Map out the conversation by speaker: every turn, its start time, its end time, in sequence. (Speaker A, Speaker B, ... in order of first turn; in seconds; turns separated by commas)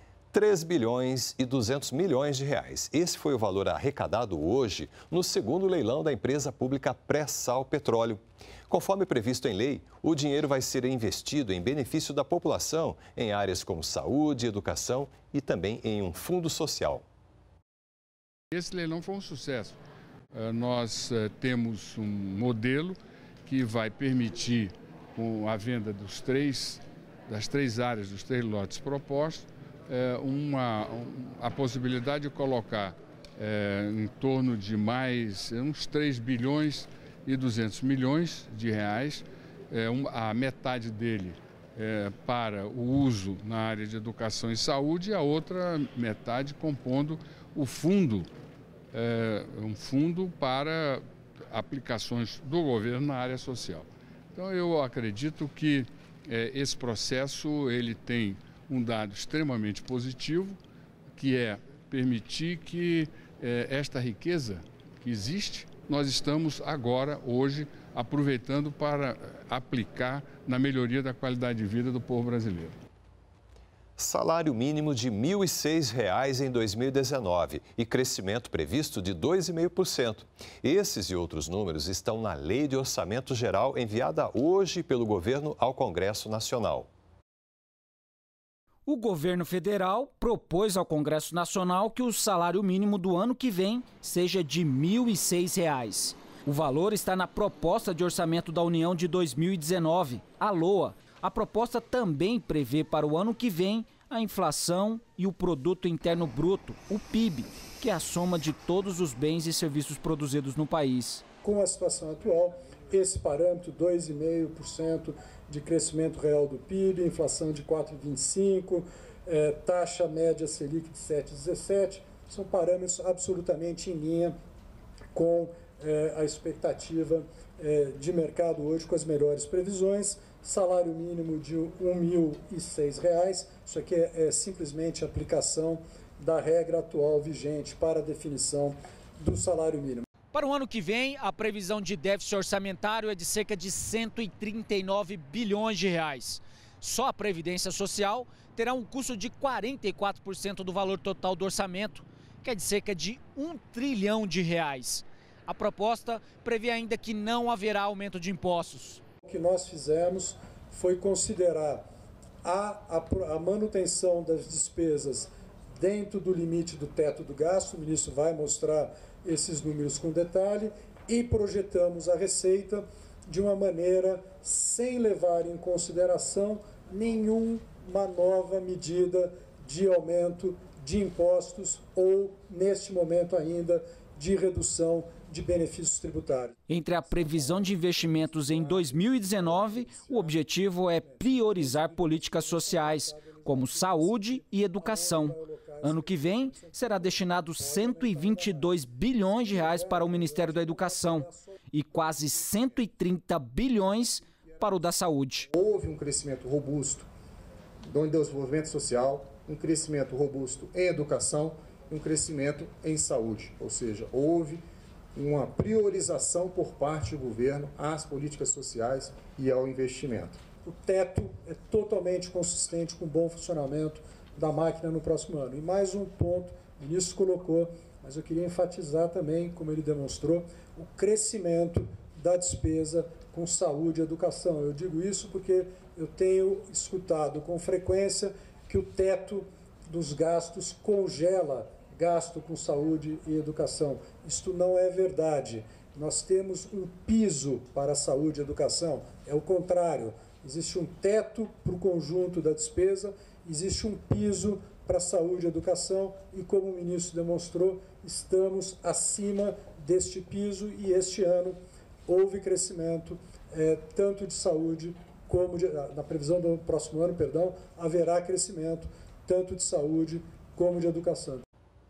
Speaker A: 0.3-17.0, Speaker B: 18.5-19.8, Speaker B: 20.3-48.3, Speaker B: 48.9-60.6, Speaker B: 61.2-72.8, Speaker A: 74.0-86.9, Speaker C: 88.9-111.2, Speaker D: 111.4-124.3, Speaker D: 125.1-140.1, Speaker C: 140.3-159.0, Speaker D: 159.2-161.8, Speaker D: 162.4-186.6, Speaker C: 186.7-205.5, Speaker D: 187.1-202.8, Speaker E: 205.5-207.1, Speaker E: 207.8-214.6, Speaker E: 215.2-220.4, Speaker D: 220.6-271.4